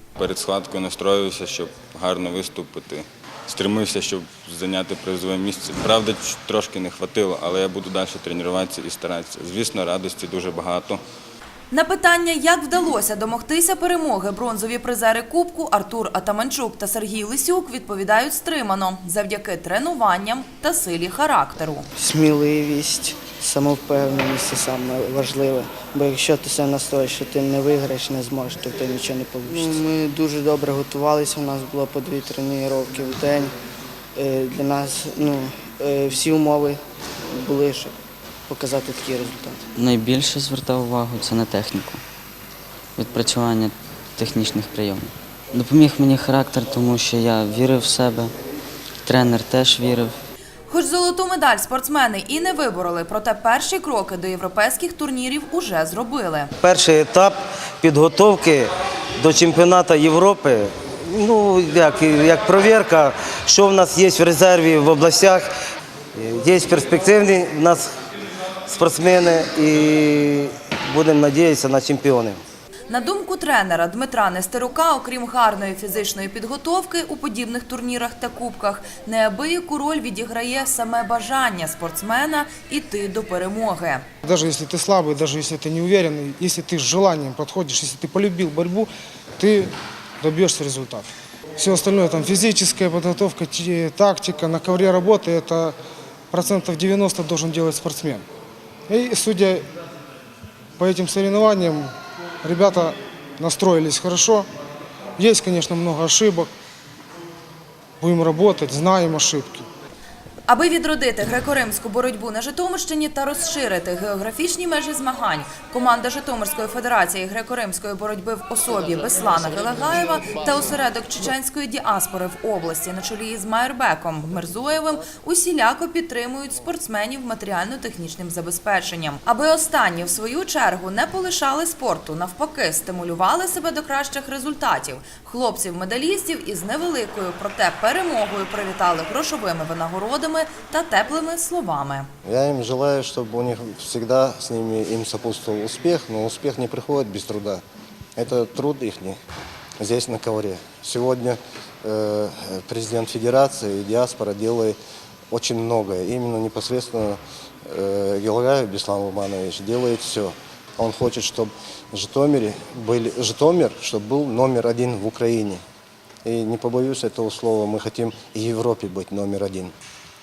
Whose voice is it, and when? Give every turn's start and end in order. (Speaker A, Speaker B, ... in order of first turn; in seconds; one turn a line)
Speaker A: 0.1-11.0
Speaker B: 11.7-21.9
Speaker C: 21.9-33.5
Speaker C: 34.1-38.0
Speaker C: 38.5-39.7
Speaker D: 39.8-42.0
Speaker D: 43.0-48.3
Speaker D: 49.0-50.1
Speaker B: 50.7-56.5
Speaker E: 56.6-65.5
Speaker E: 66.1-67.9
Speaker E: 68.7-72.4
Speaker B: 72.9-84.0
Speaker F: 84.2-95.7
Speaker F: 96.3-98.2
Speaker F: 98.9-99.6
Speaker F: 100.8-101.9
Speaker F: 102.4-104.5
Speaker F: 105.2-106.5
Speaker F: 108.0-109.7
Speaker B: 110.5-142.1
Speaker G: 142.2-147.6
Speaker G: 148.2-149.2
Speaker G: 149.8-154.8
Speaker G: 155.3-165.6
Speaker G: 166.2-169.7